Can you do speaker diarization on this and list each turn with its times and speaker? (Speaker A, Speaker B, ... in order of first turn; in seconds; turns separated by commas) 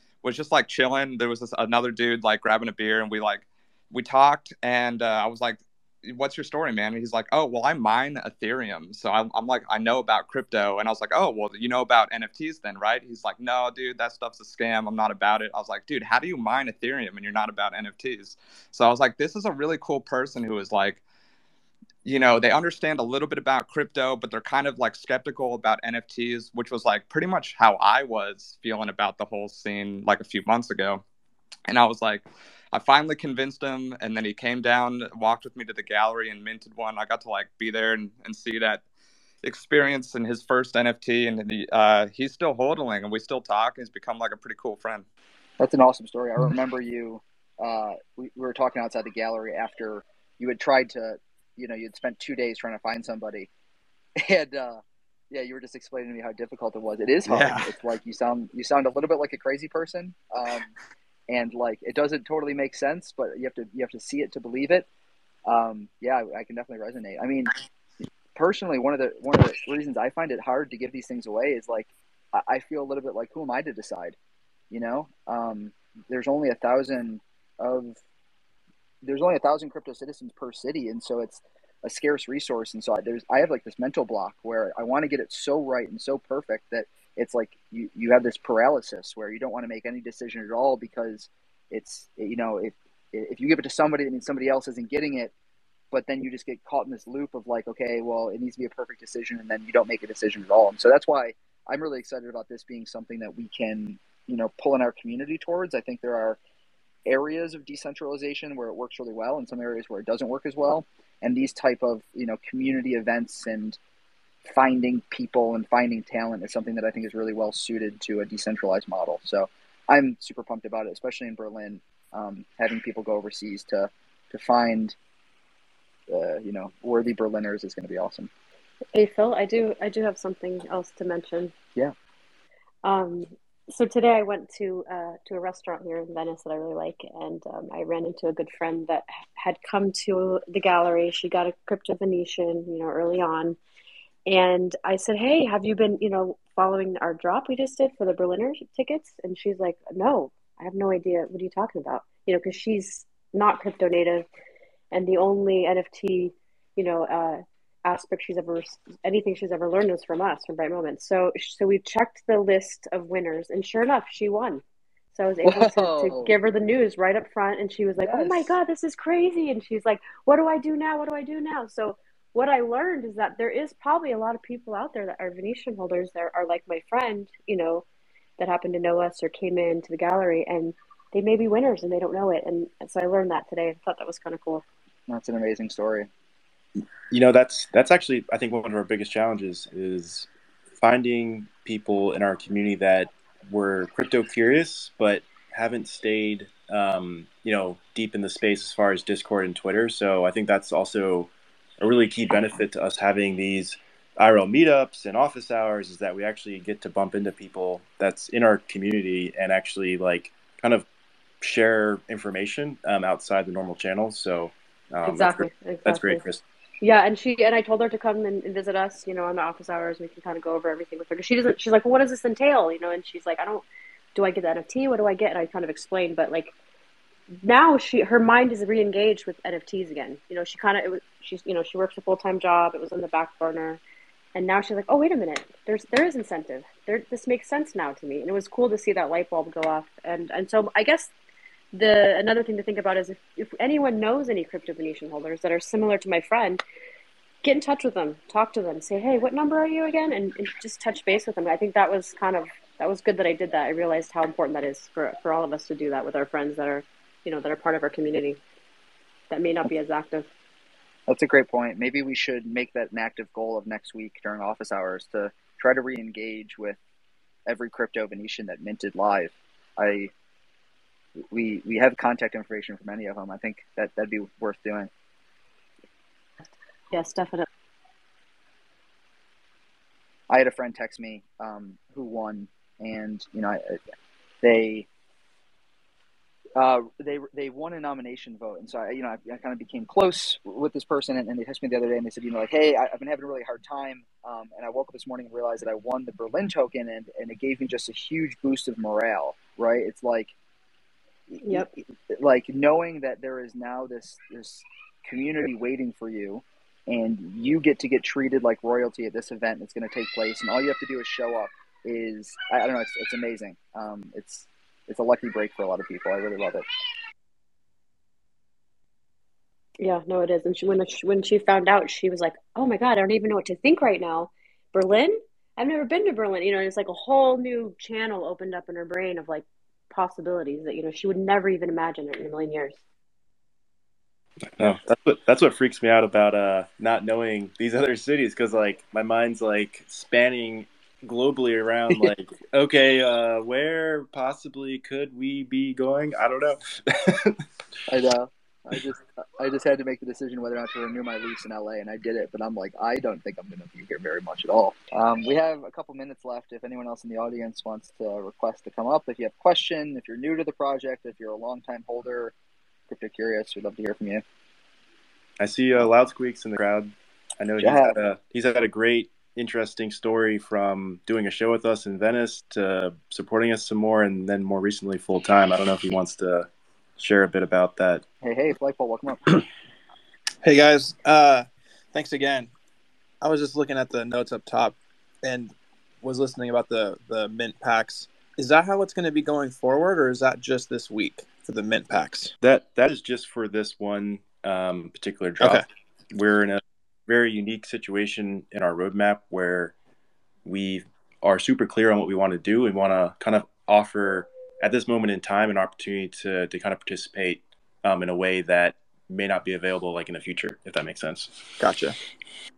Speaker A: 0.2-21.0, Speaker A: 22.1-31.0, Speaker A: 31.7-38.8, Speaker A: 39.4-45.1, Speaker B: 45.6-53.5, Speaker B: 54.2-60.7, Speaker C: 57.3-57.7, Speaker B: 61.3-64.9, Speaker B: 65.5-67.5, Speaker B: 68.3-74.2, Speaker B: 74.7-78.0, Speaker B: 79.0-95.3, Speaker B: 95.9-106.4, Speaker B: 107.1-113.8, Speaker B: 114.5-125.0, Speaker B: 126.1-128.3, Speaker D: 128.9-131.5, Speaker D: 132.8-143.6, Speaker D: 144.3-154.3, Speaker D: 154.9-177.9, Speaker B: 165.4-166.4, Speaker B: 168.0-168.6, Speaker D: 178.4-184.7, Speaker B: 185.1-186.1, Speaker E: 187.1-190.3, Speaker E: 190.8-210.9, Speaker E: 211.4-216.4, Speaker D: 215.0-216.2, Speaker D: 216.8-226.5, Speaker D: 227.3-233.8, Speaker D: 234.3-241.1, Speaker D: 241.7-246.6, Speaker D: 247.4-258.4, Speaker D: 259.3-260.3, Speaker B: 261.1-266.8, Speaker B: 267.5-270.1, Speaker B: 271.3-274.9, Speaker D: 276.9-277.5, Speaker B: 280.3-283.8, Speaker B: 284.4-284.9, Speaker B: 286.6-300.3, Speaker B: 301.3-316.6, Speaker D: 319.8-332.8, Speaker E: 334.6-347.4, Speaker B: 347.9-362.3, Speaker B: 362.9-364.2, Speaker E: 365.4-378.0, Speaker B: 367.6-368.0, Speaker B: 378.2-379.3, Speaker C: 380.4-382.5, Speaker C: 383.2-392.3, Speaker E: 392.4-399.8, Speaker C: 395.4-395.7, Speaker E: 400.4-411.4, Speaker C: 411.6-412.0